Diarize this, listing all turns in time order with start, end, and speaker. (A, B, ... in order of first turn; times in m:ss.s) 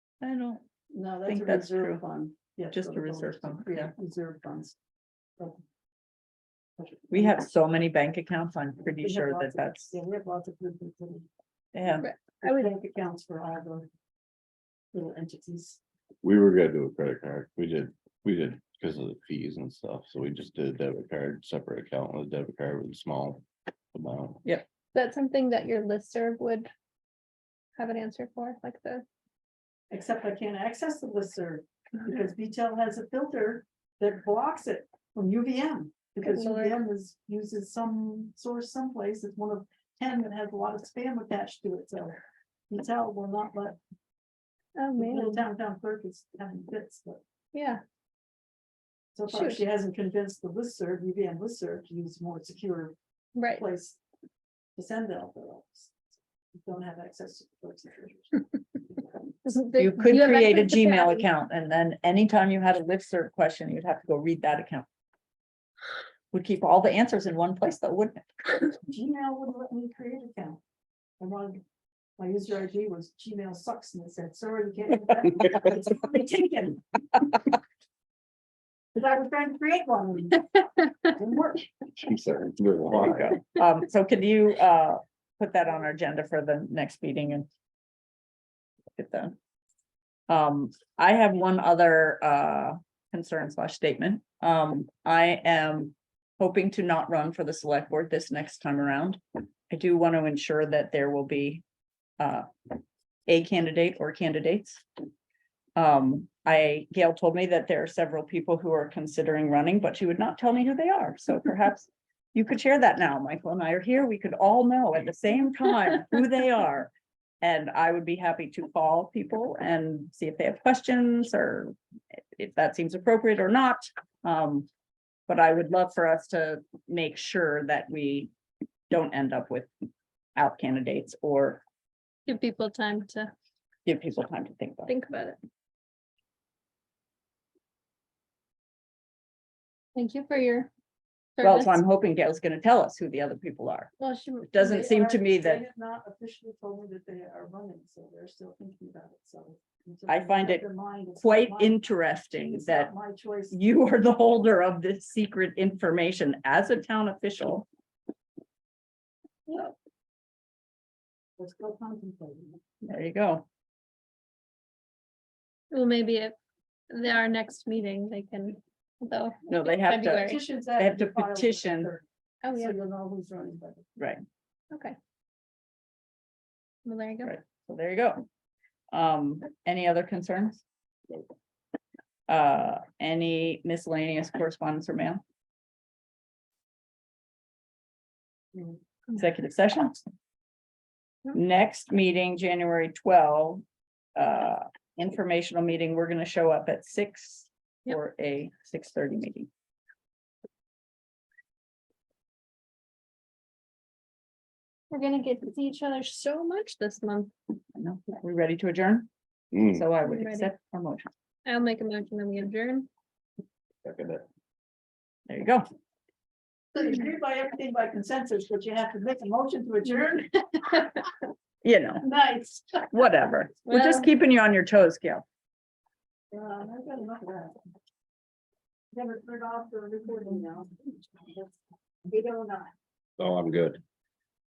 0:00.2-0:00.6 A
0:00.9-0:04.8 B
0:01.2-0:02.0 A
0:02.7-0:03.9 A
0:06.8-0:07.5 B
0:07.1-0:09.9 A
0:09.0-0:11.3 B
0:11.7-0:12.0 A
0:12.0-0:12.7 C
0:12.4-0:13.9 B
0:14.9-0:15.8 B
0:16.2-0:24.4 D
0:24.9-0:26.7 C
0:27.8-0:29.0 C
0:29.9-0:42.2 B
0:36.2-0:36.8 C
0:42.7-0:43.8 B
0:44.8-0:45.4 C
0:45.0-0:47.2 B
0:47.5-0:47.8 C
0:49.1-0:52.9 B
0:49.3-0:49.6 C
0:53.3-0:53.6 C
0:53.5-0:54.0 B
0:54.8-0:55.9 B
0:56.5-0:58.4 B
0:59.5-1:01.2 C
0:59.6-1:04.9 A
1:06.3-1:08.7 A
1:08.8-1:10.6 B
1:11.2-1:11.6 B
1:12.2-1:16.8 B
1:18.9-1:20.5 B
1:21.0-1:21.7 B
1:22.0-1:23.4 D
1:22.9-1:27.5 A
1:29.0-1:29.3 A
1:30.3-1:41.6 A
1:42.2-1:42.5 A
1:43.3-1:44.8 A
1:45.8-2:01.7 A
2:02.4-2:04.7 A
2:05.3-2:08.3 A
2:08.9-2:09.7 A
2:10.4-2:11.6 A
2:12.3-2:13.3 C
2:13.8-2:14.9 A
2:14.8-2:15.4 C
2:19.9-2:20.7 C
2:21.4-2:21.8 C
2:21.4-2:23.9 A
2:24.0-2:24.9 C
2:24.5-2:25.6 A
2:24.6-2:31.8 B
2:30.1-2:30.7 A
2:31.2-2:32.9 A
2:32.4-2:33.6 B
2:33.5-2:37.6 A
2:39.5-2:39.7 C
2:41.4-2:42.6 B
2:42.8-2:43.4 A
2:45.7-2:46.4 C
2:46.9-2:50.4 C
2:49.5-2:51.9 A
2:50.0-2:53.8 B
2:52.4-2:52.7 C
2:54.0-2:54.2 A
2:54.7-2:55.0 C
2:56.8-2:57.3 C
2:57.2-2:58.3 A
2:58.9-3:01.2 A
3:02.3-3:05.2 A
3:09.1-3:10.0 A
3:11.3-3:13.6 A
3:14.1-3:19.5 A
3:24.9-3:27.3 C
3:27.7-3:31.1 A
3:29.5-3:29.8 D
3:30.0-3:30.5 C
3:31.4-3:32.9 C
3:33.8-3:34.2 D
3:35.3-3:35.6 A
3:36.7-3:41.1 B
3:41.6-3:42.1 A
3:42.0-3:43.0 B
3:42.9-3:45.2 A
3:43.7-3:44.1 C
3:46.3-3:47.6 B
3:48.9-3:52.7 B
3:53.2-3:53.8 D